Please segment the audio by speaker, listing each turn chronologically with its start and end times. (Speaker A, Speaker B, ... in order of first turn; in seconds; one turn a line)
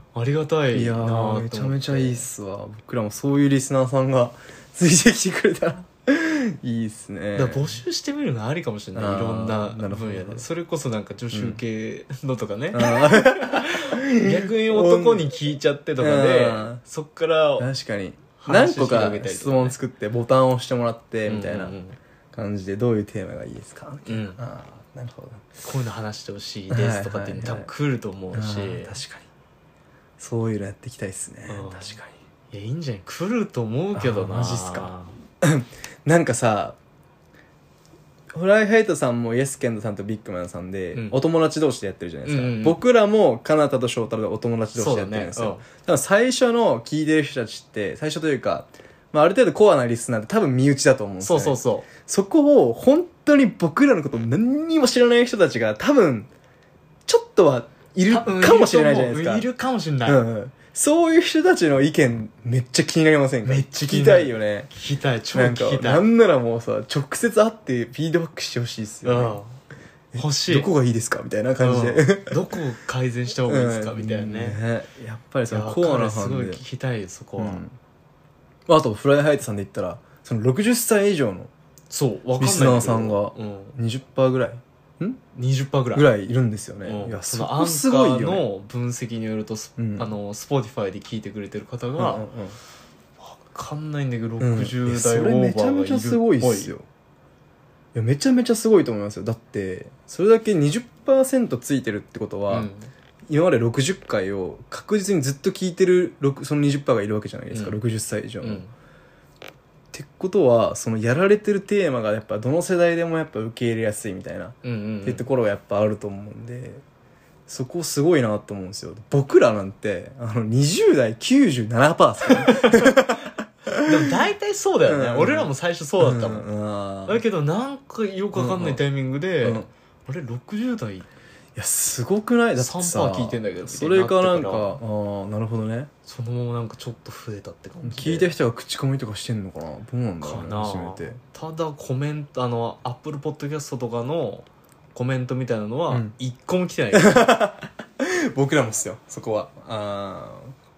Speaker A: 0.1-2.3
Speaker B: 0.7-7.8
Speaker A: 7.4-17.7
Speaker B: 8.9-10.5
Speaker B: 11.3-11.6
Speaker B: 12.7-15.3
Speaker B: 16.0-16.8
Speaker B: 17.6-21.8
Speaker A: 18.4-19.8
Speaker A: 21.3-22.0
Speaker B: 22.3-25.5
Speaker A: 24.1-24.4
Speaker A: 25.6-29.0
Speaker B: 26.7-27.7
Speaker B: 28.3-29.3
Speaker B: 30.2-32.1
Speaker A: 31.5-32.0
Speaker A: 32.5-35.1
Speaker B: 34.0-36.8
Speaker B: 38.3-56.3
Speaker A: 40.9-41.2
Speaker A: 42.3-42.8
Speaker A: 44.8-45.6
Speaker A: 51.2-51.9
Speaker B: 57.1-59.5
Speaker A: 58.1-60.2
Speaker B: 60.0-64.7
Speaker A: 63.4-66.0
Speaker B: 65.3-69.4
Speaker A: 69.0-69.5
Speaker B: 70.1-72.6
Speaker A: 70.2-70.7
Speaker A: 71.6-74.6
Speaker B: 73.5-76.6
Speaker A: 75.5-77.6
Speaker B: 77.4-77.8
Speaker B: 78.7-81.5
Speaker A: 81.9-83.8
Speaker B: 82.4-85.2
Speaker A: 85.3-86.1
Speaker B: 85.9-88.5
Speaker A: 86.8-92.3
Speaker B: 89.8-90.1
Speaker B: 92.0-92.6
Speaker A: 93.2-96.7
Speaker B: 94.4-96.9
Speaker B: 97.9-102.7
Speaker A: 102.5-102.9
Speaker B: 103.3-108.6
Speaker A: 107.5-107.8
Speaker A: 108.4-108.7
Speaker B: 109.9-116.8
Speaker A: 114.6-115.2
Speaker B: 117.5-124.1
Speaker A: 122.3-123.0
Speaker A: 123.8-126.5
Speaker B: 124.9-127.2
Speaker A: 127.1-131.1
Speaker B: 128.3-128.8
Speaker B: 129.4-129.7
Speaker B: 131.6-135.9
Speaker A: 132.6-134.8
Speaker A: 136.1-138.3
Speaker B: 137.8-141.2
Speaker A: 140.2-147.3
Speaker B: 146.9-150.5